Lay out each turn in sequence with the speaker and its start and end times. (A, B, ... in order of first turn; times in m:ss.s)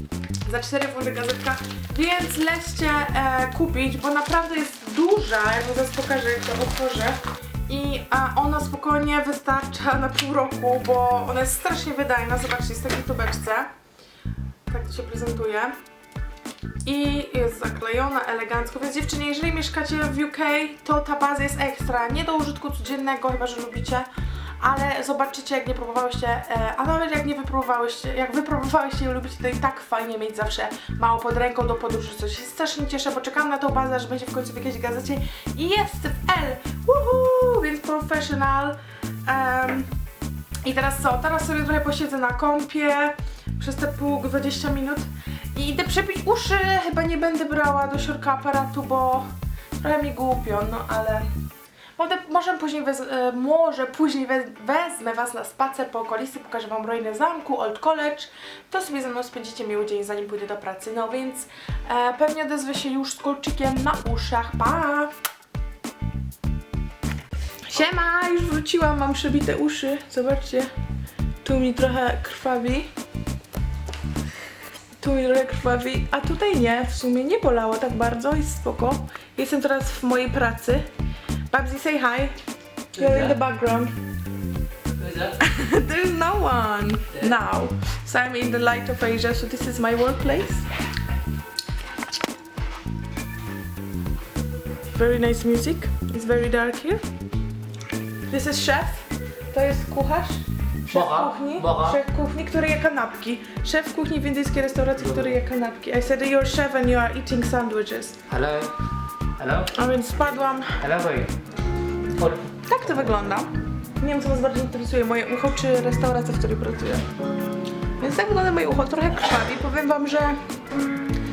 0:00.4-0:13.7 A
0:14.7-0:15.8 A
0:16.8-0:39.9 A
0:40.6-0:51.3 A
0:52.0-1:05.1 A
1:07.6-1:10.7 A
1:11.4-1:12.9 A
1:15.0-1:20.9 A
1:21.5-1:22.3 A
1:22.9-1:23.9 A
1:23.0-1:23.4 B
1:25.0-1:25.4 B
1:25.4-1:30.6 A
1:34.9-1:37.0 A
1:38.3-1:48.2 A
1:40.9-1:42.0 B
1:45.0-1:45.3 B
1:48.3-1:48.7 B
1:49.4-1:49.7 B
1:49.7-1:50.8 A
1:50.8-1:51.3 B
1:52.2-1:53.0 B
1:52.7-1:57.0 A
1:58.0-2:00.4 A